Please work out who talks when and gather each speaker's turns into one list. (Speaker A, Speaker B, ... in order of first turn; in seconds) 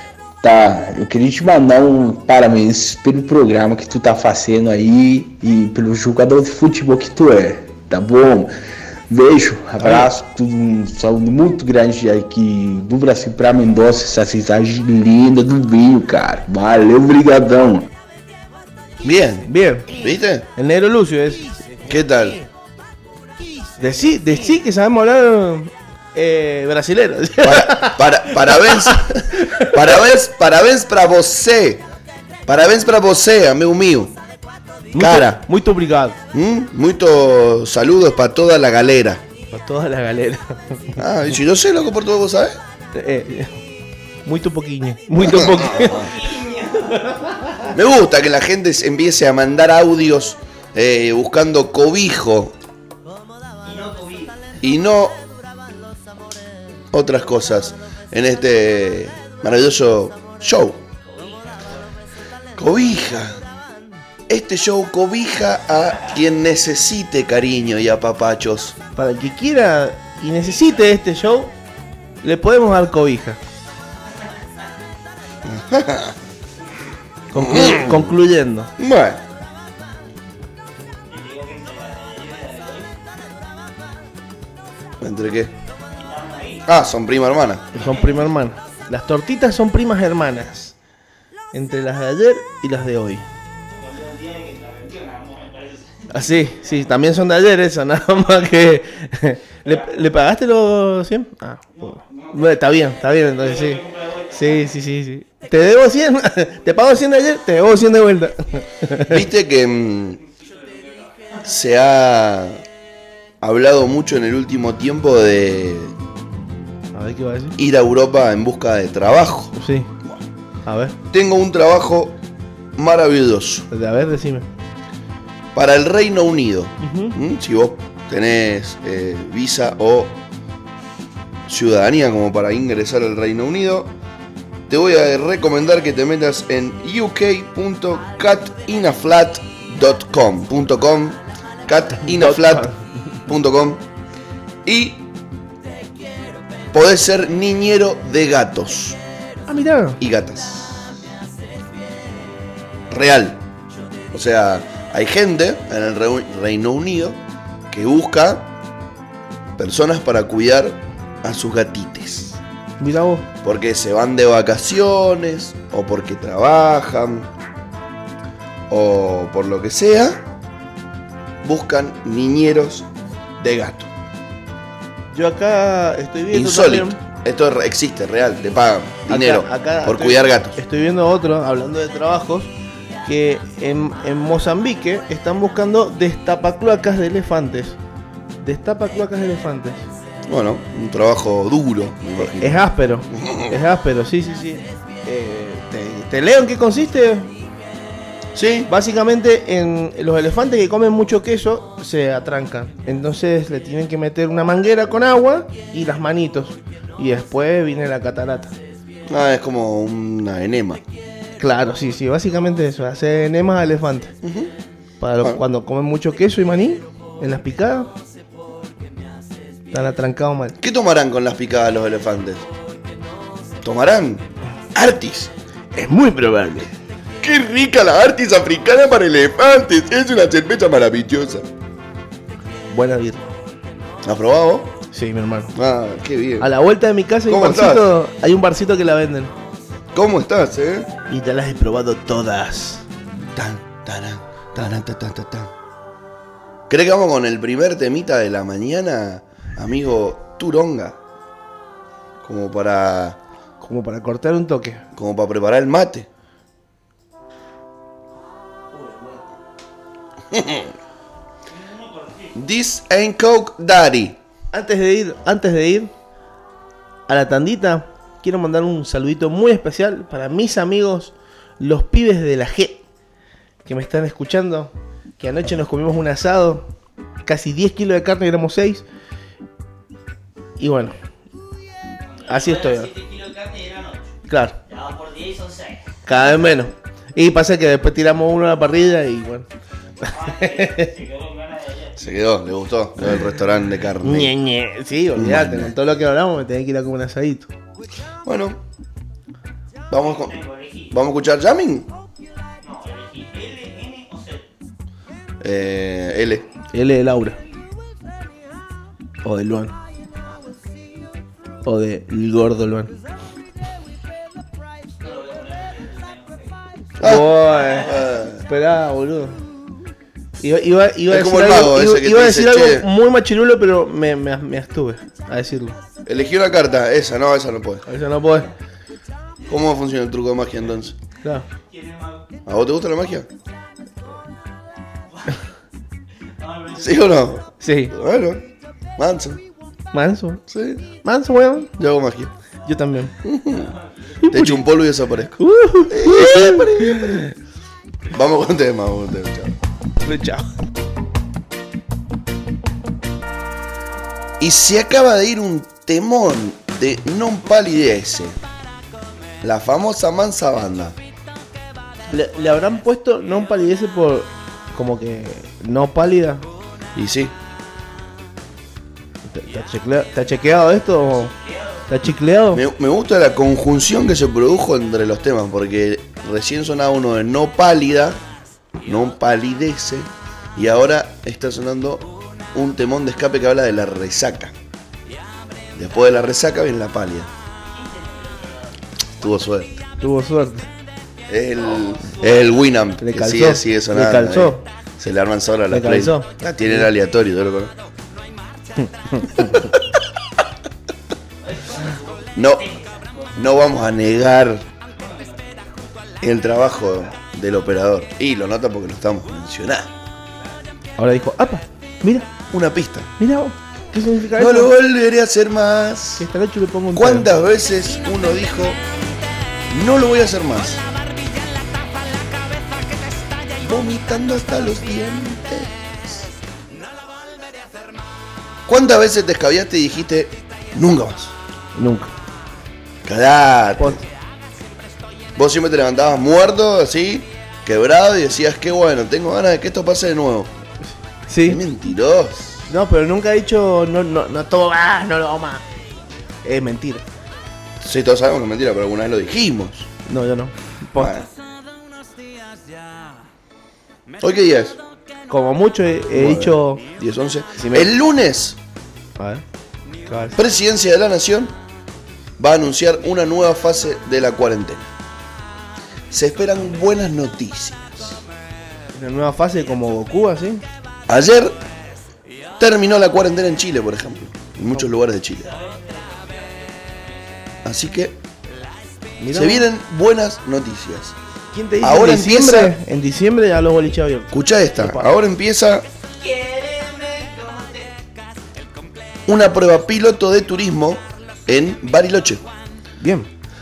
Speaker A: 0.4-8.5, 9.1-17.9
Speaker B: 9.8-10.1, 19.5-19.9, 20.6-21.6, 23.8-29.7, 34.9-36.2, 39.5-41.0, 42.9-43.6, 44.3-46.1, 69.0-71.5, 72.2-73.4, 77.3-78.7, 87.7-90.7, 91.5-93.2, 96.1-103.8, 104.3-109.2, 116.9-117.6, 119.5-119.9, 120.7-121.0, 123.7-124.5, 126.8-127.2, 142.1-142.8, 149.5-150.0, 162.8-163.3, 175.1-177.0, 179.1-182.5, 183.1-187.8, 188.4-189.8, 192.2-197.3, 198.7-208.5, 211.4-214.1, 215.0-217.9, 219.7-220.6, 225.7-226.7, 232.7-233.2, 234.9-235.5, 236.4-239.3, 241.1-242.8, 253.6-254.8, 258.7-259.2, 264.5-265.9, 267.1-272.8, 273.7-276.7, 277.3-278.8, 280.6-280.9, 282.3-282.9, 284.3-284.6, 286.1-289.5, 290.0-290.9, 294.0-297.5, 306.7-307.4, 309.2-309.8, 311.6-313.0, 317.0-317.9, 318.5-319.4, 320.4-325.8, 327.9-328.5, 337.6-337.9, 339.9-340.4, 341.0-341.7, 342.7-343.1, 344.2-344.7, 345.4-347.3, 350.0-350.5, 362.1-366.4, 369.3-371.3, 371.9-372.6, 390.0-390.7, 393.0-394.7, 395.7-396.9, 398.8-399.8, 411.0-412.3, 413.2-414.7, 416.2-417.3, 431.8-432.1, 441.3-441.6, 442.7-445.6, 446.4-447.0, 450.1-451.1, 455.3-456.8, 457.6-457.9, 459.2-459.4, 460.1-460.4, 468.9-470.6, 479.2-479.7, 481.5-485.1, 493.0-493.3
Speaker C: 19.0-20.5, 21.9-22.4, 27.4-31.8, 32.5-34.1, 35.0-35.4, 36.3-39.2, 41.0-42.6, 45.2-46.0, 47.7-52.5, 54.6-55.2, 56.9-60.8, 62.6-63.4, 64.3-68.8, 75.5-76.2, 77.3-78.1, 78.8-79.2, 85.0-85.5, 86.7-87.7, 109.1-110.2, 111.5-112.6, 113.4-115.9, 117.6-120.2, 121.1-122.2, 122.8-123.7, 125.5-130.2, 131.5-133.9, 134.7-142.7, 143.3-143.8, 144.7-145.0, 146.7-149.0, 150.0-150.8, 152.9-153.4, 154.1-157.2, 157.7-158.5, 159.6-162.4, 163.4-167.3, 168.7-170.2, 171.4-172.9, 173.4-173.9, 176.3-180.6, 190.3-193.5, 198.3-198.7, 209.1-210.8, 214.2-214.5, 220.6-222.5, 223.6-225.3, 227.2-231.5, 234.0-234.7, 235.6-236.5, 237.3-237.9, 239.9-240.9, 243.3-245.5, 246.7-251.0, 252.2-253.2, 254.9-256.1, 260.3-260.7, 262.4-264.2, 292.0-294.3, 295.2-295.7, 298.2-298.6, 299.9-301.9, 305.4-306.5, 317.0-318.4, 321.1-322.9, 326.1-327.9, 329.5-331.0, 332.5-333.3, 336.8-338.4, 339.0-339.4, 340.5-340.9, 341.8-342.3, 343.2-343.7, 344.3-347.2, 348.1-349.6, 354.4-358.4, 359.4-361.0, 366.9-367.3, 372.5-378.2, 378.8-384.5, 385.8-387.3, 389.2-389.8, 391.3-397.7, 402.4-402.7, 403.4-404.6, 406.2-409.9, 412.5-413.1, 414.4-416.3, 416.9-418.8, 419.7-420.8, 423.6-426.3, 428.7-431.4, 433.1-434.0, 435.4-440.5, 441.5-442.6, 447.8-449.9, 451.0-451.3, 454.2-454.8, 456.1-458.6, 460.4-461.5, 462.4-464.9, 466.1-468.2, 471.1-471.6, 472.6-475.5, 477.6-478.2, 479.3-481.1, 481.8-482.7, 484.3-485.9, 489.3-492.4
Speaker D: 45.7-47.2, 53.6-54.4, 61.0-61.8, 81.1-82.9, 86.0-86.7, 87.8-88.2, 93.8-96.1, 99.7-100.0, 101.8-102.5, 103.4-104.7, 110.2-111.5, 261.5-262.4, 282.1-285.9, 290.1-292.0, 299.9-301.0, 302.6-304.5, 315.0-316.6, 331.7-332.3, 336.4-337.3, 343.5-344.1, 371.2-371.9, 387.6-388.8, 391.6-392.6, 401.4-403.6, 404.8-405.9, 475.3-477.4, 486.2-488.0